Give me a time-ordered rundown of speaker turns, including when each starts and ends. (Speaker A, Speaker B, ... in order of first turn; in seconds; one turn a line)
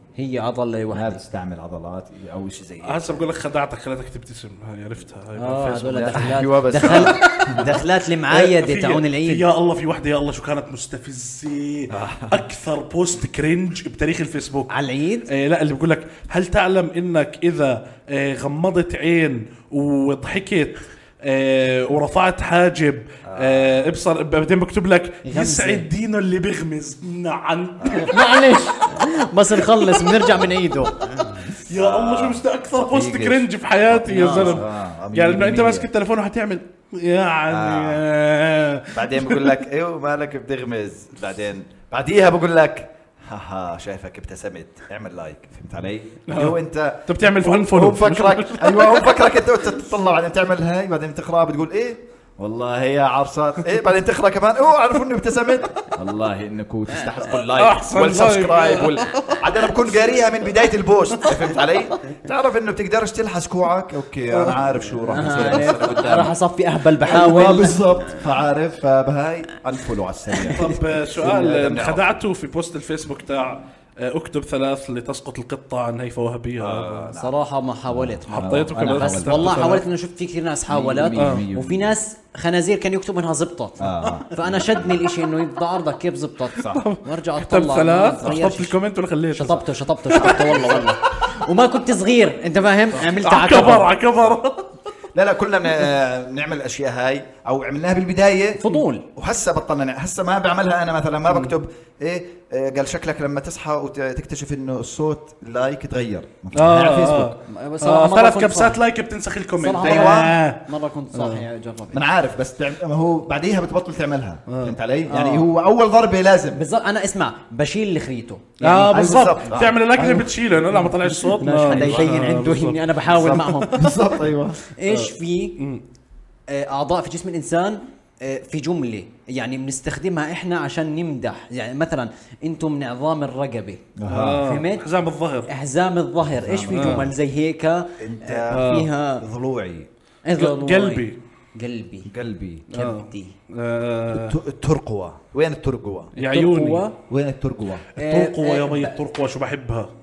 Speaker A: 0.2-1.2
Speaker B: 0.9-3.3
Speaker C: 2.8-14.7
Speaker A: 5.4-9.5
Speaker B: 6.2-7.7
Speaker B: 11.9-12.4
Speaker A: 14.7-15.3
Speaker C: 15.3-28.2
Speaker B: 23.3-23.9
Speaker A: 25.2-25.9
Speaker B: 27.8-28.1
Speaker A: 28.0-31.5
Speaker C: 31.5-39.6
Speaker B: 31.5-35.9
Speaker A: 34.1-34.6
Speaker B: 37.5-38.0
Speaker B: 38.9-66.3
Speaker C: 46.3-49.1
Speaker C: 57.5-59.5
Speaker C: 64.3-65.5
Speaker A: 65.1-67.8
Speaker B: 67.0-72.2
Speaker C: 70.5-77.1
Speaker B: 76.6-77.3
Speaker A: 77.1-88.8
Speaker B: 77.9-79.6
Speaker C: 78.3-79.8
Speaker B: 80.7-82.0
Speaker C: 81.2-81.5
Speaker B: 83.8-85.1
Speaker B: 86.6-86.8
Speaker C: 86.6-90.9
Speaker A: 89.3-93.9
Speaker C: 93.1-94.7
Speaker B: 95.2-98.6
Speaker A: 98.6-99.0
Speaker B: 99.2-107.3
Speaker C: 106.5-111.5
Speaker A: 107.5-108.8
Speaker A: 109.6-112.0
Speaker B: 109.8-110.4
Speaker B: 111.9-116.6
Speaker C: 114.5-114.8
Speaker A: 115.1-115.5
Speaker A: 116.5-119.5
Speaker C: 118.6-124.0
Speaker B: 118.8-120.9
Speaker A: 121.0-124.1
Speaker B: 121.7-122.3
Speaker B: 123.1-124.6
Speaker A: 124.7-125.6
Speaker C: 124.9-125.8
Speaker A: 126.5-134.9
Speaker B: 134.0-134.5
Speaker C: 134.1-135.5
Speaker A: 135.5-139.2
Speaker B: 136.2-137.1
Speaker C: 136.7-137.1
Speaker B: 138.0-139.9
Speaker C: 138.5-138.9
Speaker A: 140.3-142.1
Speaker C: 140.3-141.2
Speaker B: 142.1-142.7
Speaker A: 142.7-143.3
Speaker C: 142.7-144.4
Speaker B: 144.1-146.1
Speaker C: 146.2-146.8
Speaker A: 146.2-147.0
Speaker B: 147.1-147.9
Speaker C: 148.0-149.9
Speaker A: 148.0-149.0